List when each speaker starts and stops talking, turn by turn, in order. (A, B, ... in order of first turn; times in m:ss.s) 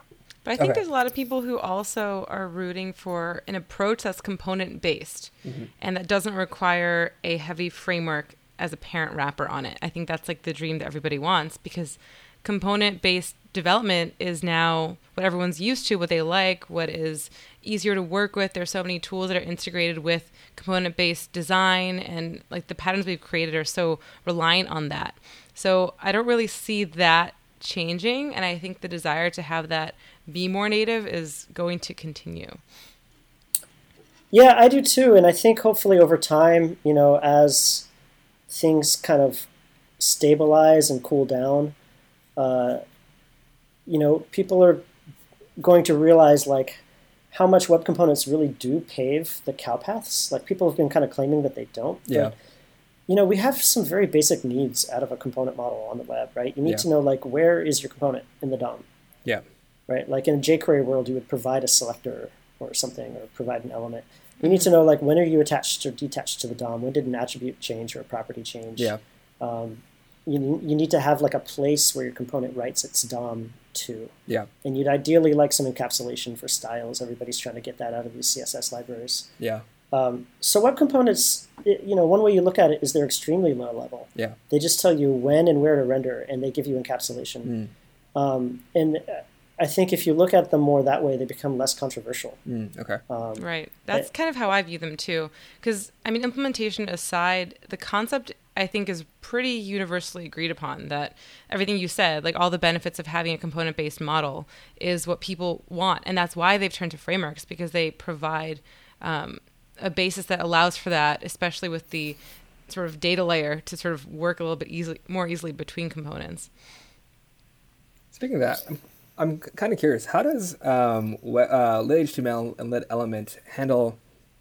0:00.4-0:32.6 A
0:34.3-0:37.9 B
0:38.5-0:39.5 B
0:40.0-0:41.7 B
0:42.4-0:42.8 B
0:43.8-0:44.8 B
0:45.6-0:52.3 B
0:53.1-0:58.8 B
0:59.9-1:19.3 B
1:19.9-1:27.5 B
1:27.4-1:27.7 C
1:28.1-1:32.4 B
1:32.5-1:33.0 C
1:33.1-1:34.1 B
1:33.4-1:52.2 A
1:52.7-1:56.5 A
1:58.1-2:04.0 C